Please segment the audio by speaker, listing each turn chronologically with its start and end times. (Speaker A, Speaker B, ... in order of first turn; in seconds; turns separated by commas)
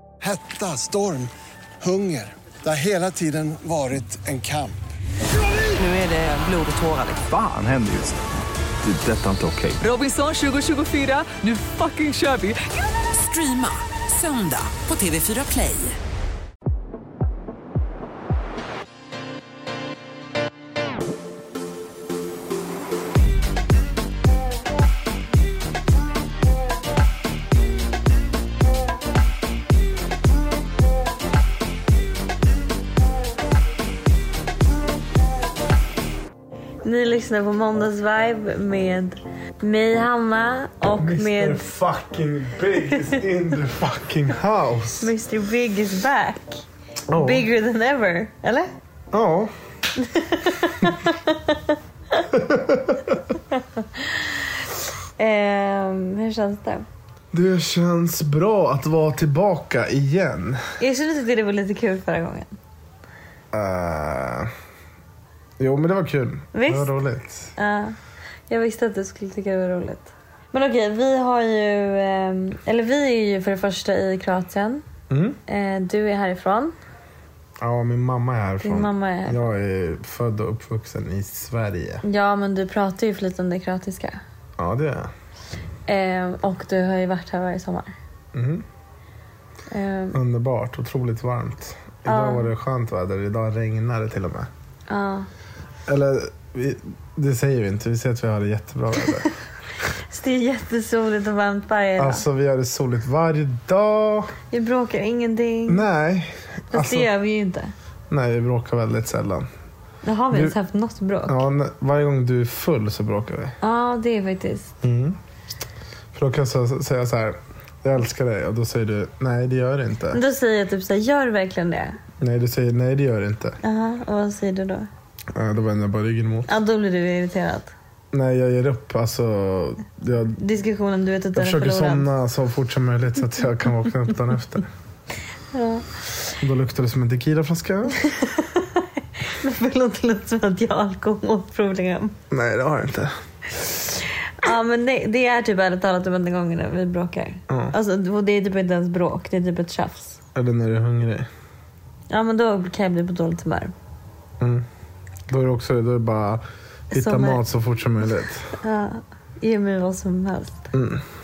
Speaker A: 0.2-1.3, Speaker A: 1.8-4.8, Speaker B: 5.7-7.2, Speaker C: 7.3-8.2, Speaker C: 8.8-9.8, Speaker B: 9.8-16.0, Speaker D: 36.8-41.6, Speaker E: 40.9-45.1, Speaker D: 45.0-48.7, Speaker E: 47.1-47.5, Speaker E: 49.1-49.5, Speaker D: 50.0-52.2, Speaker E: 52.3-53.2, Speaker D: 53.5-54.2, Speaker D: 55.2-56.9, Speaker E: 57.3-60.7, Speaker D: 60.8-62.5, Speaker E: 63.5-64.5, Speaker E: 65.6-67.5, Speaker D: 66.5-66.9, Speaker D: 67.6-68.0, Speaker D: 68.5-74.8, Speaker E: 75.1-75.4, Speaker D: 75.5-76.7, Speaker E: 77.6-82.0, Speaker D: 78.6-79.4, Speaker D: 82.0-84.2, Speaker E: 84.6-85.1, Speaker D: 85.9-87.9, Speaker E: 88.3-88.7, Speaker D: 89.7-90.2, Speaker E: 90.1-94.5, Speaker D: 92.1-92.5, Speaker D: 94.9-95.3, Speaker E: 95.9-99.3, Speaker D: 100.1-102.2, Speaker E: 102.0-104.3, Speaker D: 104.5-105.8, Speaker E: 105.7-107.1, Speaker D: 106.7-107.7, Speaker E: 108.1-109.5, Speaker D: 110.0-111.4, Speaker E: 111.3-113.6, Speaker D: 113.6-114.7, Speaker E: 114.8-115.2, Speaker E: 116.1-120.2, Speaker D: 120.1-122.0, Speaker E: 122.2-123.6, Speaker D: 123.6-124.9, Speaker E: 125.3-126.5, Speaker D: 126.5-127.7, Speaker E: 128.1-130.4, Speaker D: 130.4-132.1, Speaker E: 131.3-134.7, Speaker D: 135.5-135.9, Speaker E: 136.4-138.0, Speaker D: 138.1-142.2, Speaker E: 142.3-143.1, Speaker D: 144.4-150.2, Speaker E: 147.5-147.7, Speaker E: 150.3-151.3, Speaker D: 152.1-153.7, Speaker E: 154.4-154.7, Speaker E: 155.3-158.5, Speaker D: 156.9-157.4, Speaker D: 158.6-160.7, Speaker E: 160.7-161.0